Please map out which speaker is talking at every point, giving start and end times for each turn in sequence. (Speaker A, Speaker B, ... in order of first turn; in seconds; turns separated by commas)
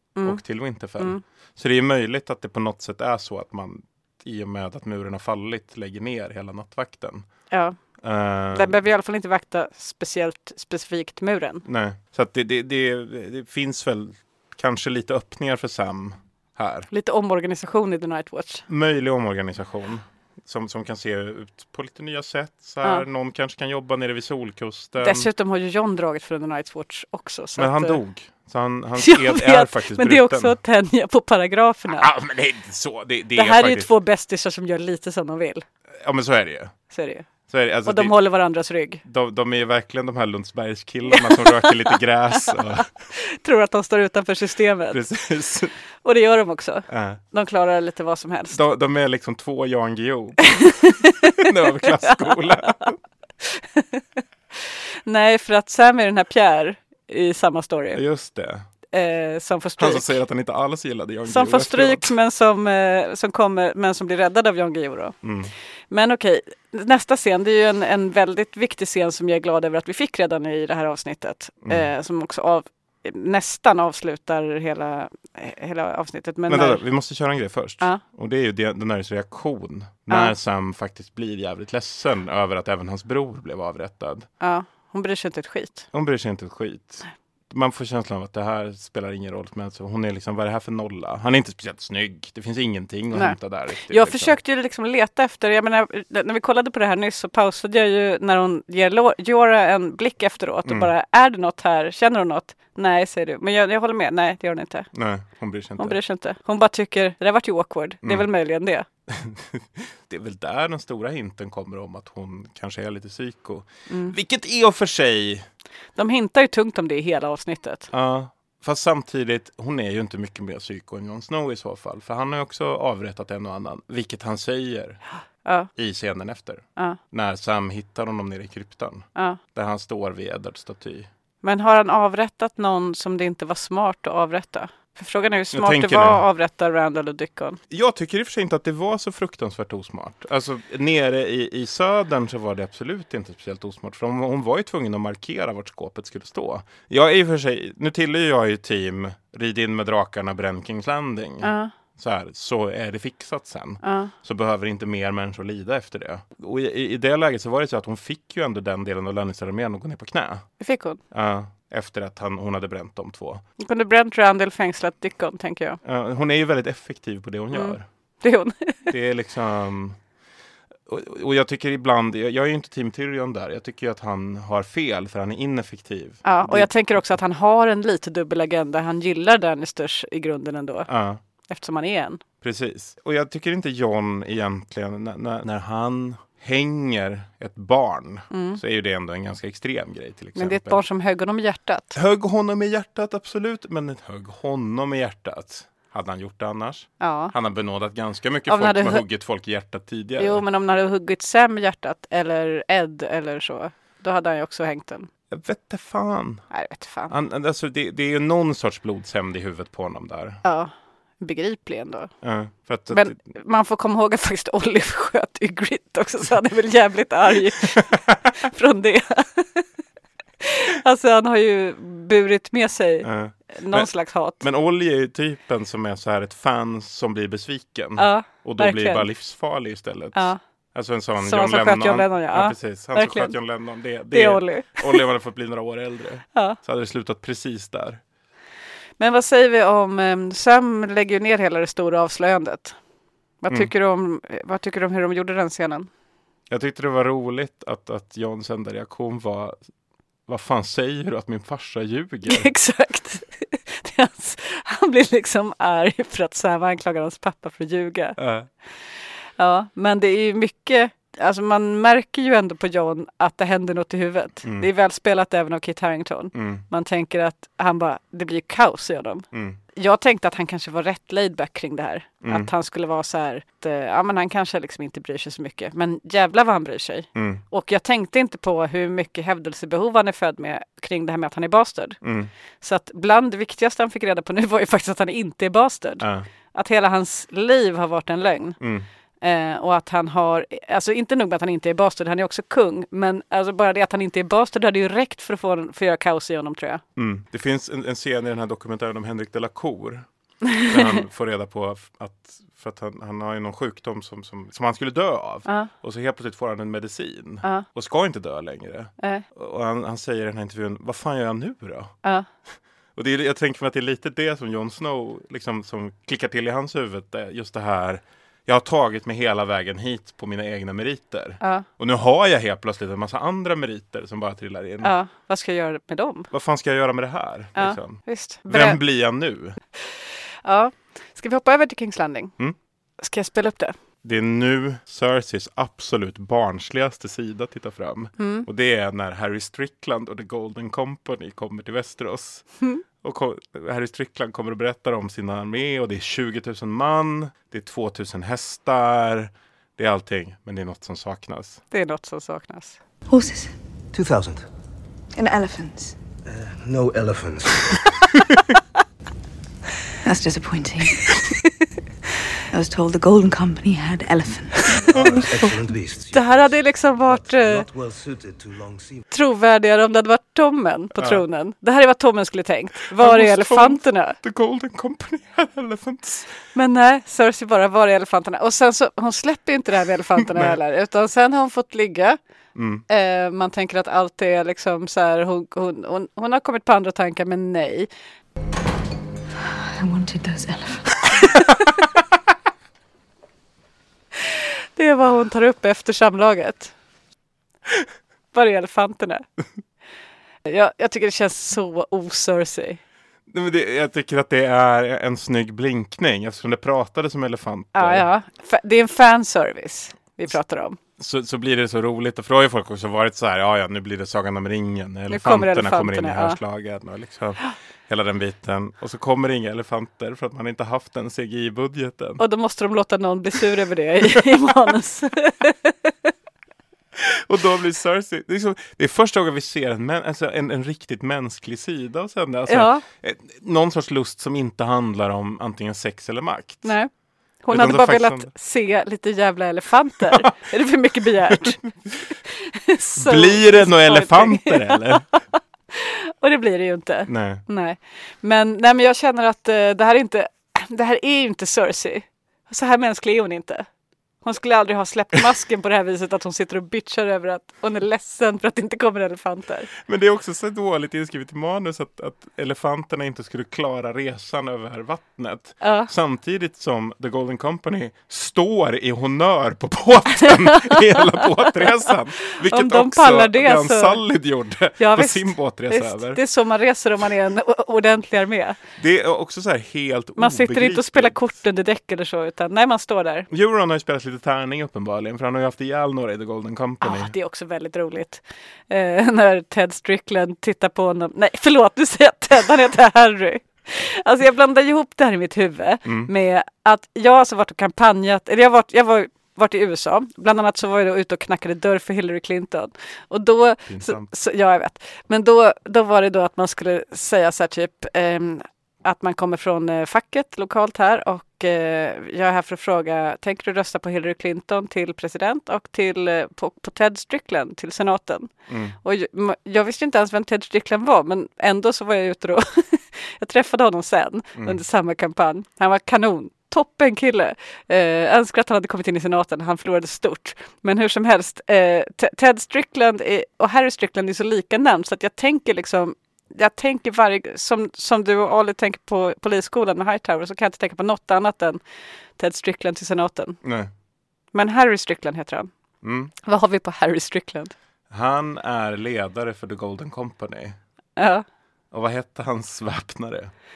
Speaker A: 0.1-1.2, Speaker B: 0.2-7.3, Speaker A: 7.5-7.8, Speaker B: 8.0-8.8, Speaker A: 8.5-11.6, Speaker B: 11.7-16.9, Speaker A: 16.9-18.6, Speaker B: 18.7-25.3, Speaker A: 25.0-28.0, Speaker B: 27.6-30.6, Speaker A: 29.0-32.1, Speaker B: 31.9-33.9, Speaker A: 33.3-35.6, Speaker B: 36.0-36.8, Speaker A: 36.9-37.3, Speaker B: 37.5-38.1, Speaker A: 37.8-39.0, Speaker B: 39.0-42.9, Speaker A: 41.1-45.1, Speaker B: 44.9-45.7, Speaker A: 46.0-48.6, Speaker B: 46.9-47.2, Speaker B: 48.5-52.9, Speaker A: 50.5-51.1, Speaker A: 51.8-52.7, Speaker A: 53.4-54.0, Speaker A: 54.6-58.0, Speaker B: 57.9-58.6, Speaker A: 58.9-60.2, Speaker B: 59.8-62.1, Speaker A: 61.3-65.3, Speaker B: 65.2-65.5, Speaker A: 65.9-76.8, Speaker B: 76.5-84.3, Speaker A: 84.4-85.9, Speaker B: 85.9-94.3, Speaker A: 93.1-105.0, Speaker B: 104.9-106.0, Speaker A: 105.8-108.8, Speaker B: 109.1-115.5, Speaker A: 113.9-114.1, Speaker A: 116.0-117.9, Speaker B: 117.9-125.0, Speaker A: 125.4-125.7, Speaker B: 125.7-131.1, Speaker A: 131.4-137.6, Speaker B: 135.5-136.2, Speaker B: 137.7-160.6, Speaker A: 151.4-151.7, Speaker A: 153.8-154.1, Speaker A: 160.6-161.0, Speaker B: 161.1-163.4, Speaker A: 163.6-165.8, Speaker B: 165.8-167.8, Speaker A: 167.5-168.9, Speaker B: 168.9-170.0, Speaker B: 170.9-177.1, Speaker A: 176.2-182.2, Speaker B: 180.9-181.2, Speaker B: 182.4-190.8, Speaker A: 188.3-188.6, Speaker A: 190.3-192.0, Speaker B: 191.9-200.4, Speaker A: 197.0-197.3, Speaker A: 198.5-199.0, Speaker A: 200.2-205.1, Speaker B: 205.3-206.5, Speaker A: 206.5-207.1, Speaker B: 207.1-210.4, Speaker A: 210.4-212.1, Speaker B: 212.2-213.1, Speaker A: 212.9-219.7, Speaker A: 220.4-224.4, Speaker B: 223.0-238.0, Speaker A: 228.0-229.1, Speaker A: 230.1-230.4, Speaker A: 231.2-233.4, Speaker A: 234.1-235.0, Speaker A: 239.0-242.8, Speaker A: 243.4-245.9, Speaker B: 246.5-249.6, Speaker B: 250.3-252.5, Speaker A: 252.3-258.2, Speaker B: 258.2-258.5, Speaker A: 259.4-282.0, Speaker B: 266.3-266.6, Speaker B: 269.3-269.6, Speaker B: 272.2-272.5, Speaker B: 277.1-277.4, Speaker B: 282.0-282.3, Speaker A: 282.6-288.6, Speaker B: 286.0-286.3, Speaker B: 288.6-288.9, Speaker A: 289.2-296.8, Speaker B: 296.9-300.1, Speaker B: 300.6-311.9, Speaker A: 305.4-305.7, Speaker B: 312.9-324.9, Speaker A: 321.4-321.6, Speaker A: 324.8-326.3, Speaker B: 326.3-329.6, Speaker A: 327.6-328.8, Speaker A: 329.8-332.4, Speaker A: 333.0-333.7, Speaker B: 334.0-351.6, Speaker A: 338.2-338.5, Speaker A: 351.7-352.8, Speaker C: 353.1-353.5, Speaker D: 353.9-354.4, Speaker C: 355.1-356.0, Speaker D: 356.3-357.9, Speaker C: 360.0-361.4, Speaker C: 362.5-365.0, Speaker D: 364.9-369.0, Speaker B: 364.9-365.2, Speaker A: 366.1-367.7, Speaker A: 369.1-374.2, Speaker B: 372.9-376.4, Speaker A: 376.5-382.2, Speaker B: 382.6-382.8, Speaker A: 382.9-387.9, Speaker C: 389.8-391.2, Speaker A: 394.8-396.7, Speaker A: 398.3-399.2, Speaker A: 400.4-402.8, Speaker B: 403.3-408.1, Speaker A: 407.7-410.8, Speaker B: 411.0-422.2, Speaker A: 415.1-416.4, Speaker A: 422.2-425.9, Speaker B: 427.0-436.8, Speaker A: 432.5-432.8, Speaker A: 436.6-441.8, Speaker B: 437.5-438.3, Speaker A: 442.3-453.7, Speaker B: 443.0-445.0, Speaker B: 447.1-447.4, Speaker A: 454.2-459.7, Speaker B: 459.8-476.2, Speaker A: 465.6-465.9, Speaker A: 472.4-474.0, Speaker A: 474.8-478.6, Speaker B: 478.8-481.2, Speaker A: 480.2-483.3, Speaker B: 483.3-487.1, Speaker A: 486.8-518.3, Speaker B: 495.9-496.1, Speaker B: 503.7-504.1, Speaker B: 518.5-518.8, Speaker A: 518.8-541.6, Speaker A: 542.1-543.4, Speaker B: 543.4-543.7, Speaker A: 544.3-545.5, Speaker B: 545.8-546.1, Speaker A: 546.2-547.5, Speaker B: 547.9-550.6, Speaker A: 551.0-551.2, Speaker B: 551.7-553.3